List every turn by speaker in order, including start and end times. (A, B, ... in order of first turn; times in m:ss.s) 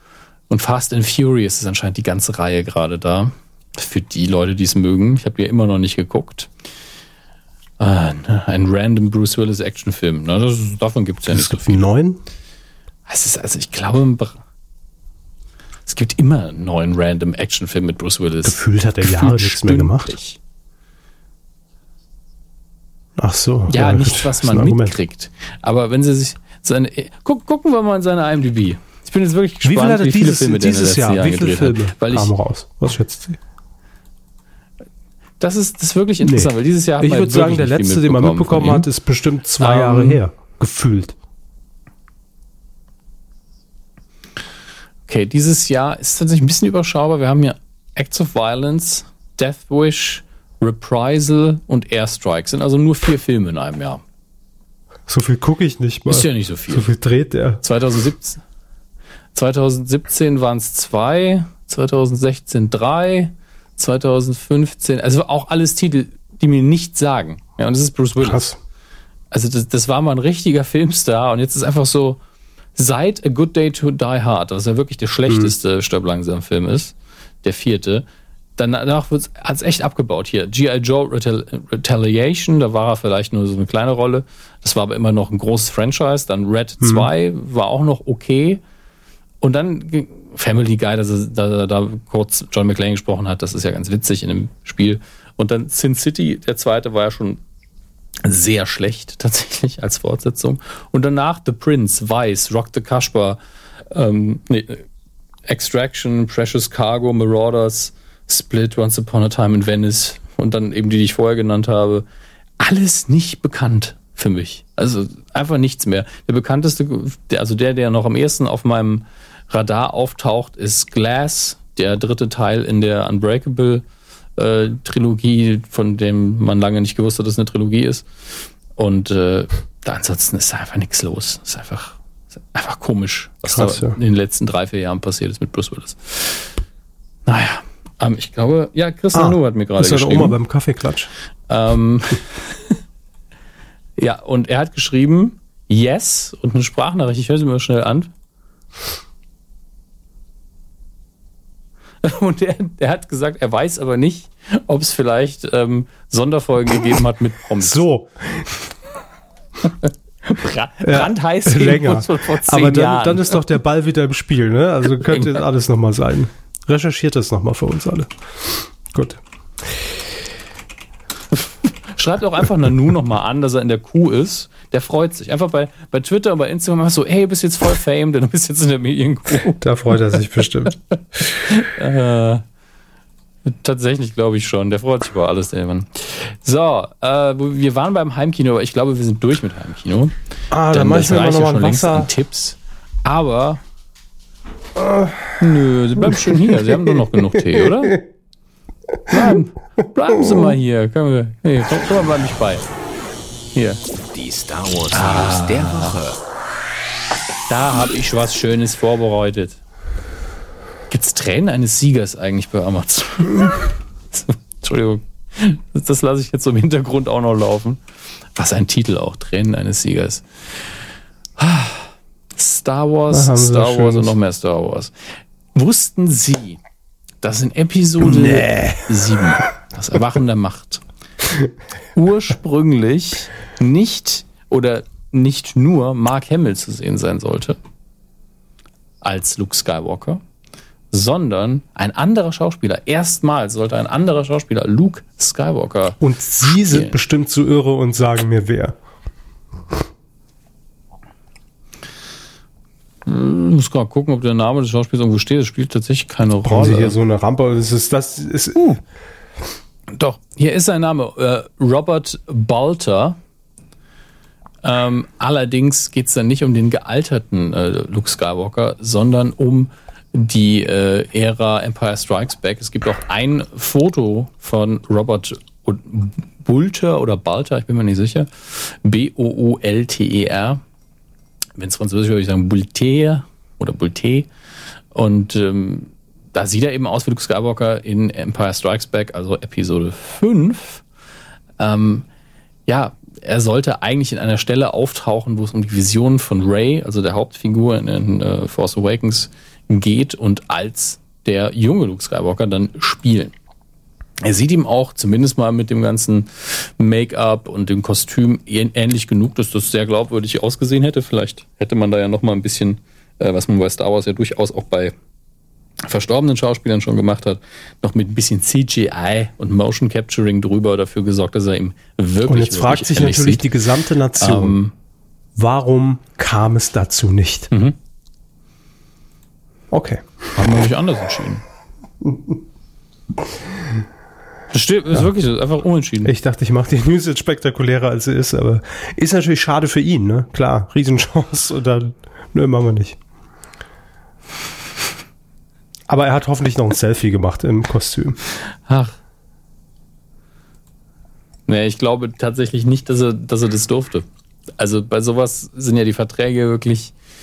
0:00.5-0:06.5 A
0:07.8-0:11.8 A
0:11.3-0:12.2 B
0:13.1-0:14.4 A
0:15.9-0:20.4 A
0:18.4-0:20.2 B
0:23.2-0:25.0 B
0:23.7-0:32.3 A
0:29.6-0:33.4 B
0:35.4-0:38.9 A
0:36.2-0:41.2 B
0:39.6-0:40.2 A
0:45.1-0:54.0 A
0:55.1-0:57.6 B
0:56.1-0:56.9 A
0:57.6-0:58.4 A
0:59.4-1:08.5 A
1:08.2-1:08.6 B
1:09.3-1:12.2 A
1:12.8-1:18.0 A
1:15.3-1:15.5 B
1:18.6-1:28.6 A
1:26.8-1:27.1 B
1:29.4-1:37.4 A
1:38.2-1:43.4 A
1:43.9-1:44.8 A
1:45.5-1:52.0 A
1:52.6-2:03.8 A
2:04.4-2:08.1 A
2:08.8-2:12.0 A
2:12.5-2:16.5 A
2:13.5-2:14.0 B
2:17.3-2:20.4 A
2:19.1-2:21.1 B
2:21.5-2:22.6 A
2:24.0-2:28.1 A
2:32.0-2:37.8 A
2:37.6-2:38.5 B
2:39.6-2:43.4 A
2:40.8-2:49.2 B
2:45.1-2:45.4 A
2:51.3-2:59.6 A
2:59.4-3:01.4 B
3:01.4-3:02.4 A
3:03.5-3:10.1 A
3:10.5-3:12.1 B
3:10.7-3:13.6 A
3:14.8-3:15.4 B
3:15.4-3:18.0 A
3:16.0-3:18.0 B
3:19.1-3:22.7 A
3:20.2-3:20.5 B
3:23.6-3:23.8 A
3:24.1-3:26.2 C
3:24.9-3:26.0 A
3:27.5-3:29.6 A
3:30.9-3:37.8 A
3:38.4-3:40.7 A
3:41.4-3:44.9 A
3:43.1-3:44.2 B
3:45.6-3:46.6 A
3:47.2-3:50.8 A
3:48.0-3:49.4 B
3:52.0-3:57.6 A
3:59.0-4:00.2 A
4:00.9-4:07.0 A
4:06.0-4:08.8 B
4:13.1-4:17.0 A
4:16.4-4:18.8 B
4:19.9-4:23.2 A
4:24.6-4:40.6 A
4:41.6-4:44.3 A
4:44.9-4:50.8 A
4:51.6-4:52.1 A
4:52.7-5:03.3 A
5:04.2-5:14.9 A
5:15.8-5:23.5 A
5:22.2-5:24.6 B
5:24.2-5:24.7 A
5:25.4-5:27.5 B
5:29.7-5:30.1 B
5:30.4-5:31.4 A
5:32.0-5:32.4 B
5:34.5-5:36.1 A
5:36.0-5:43.0 B
5:45.9-5:48.2 B
5:48.7-5:48.9 A
5:51.5-5:54.0 A
5:54.6-5:56.9 A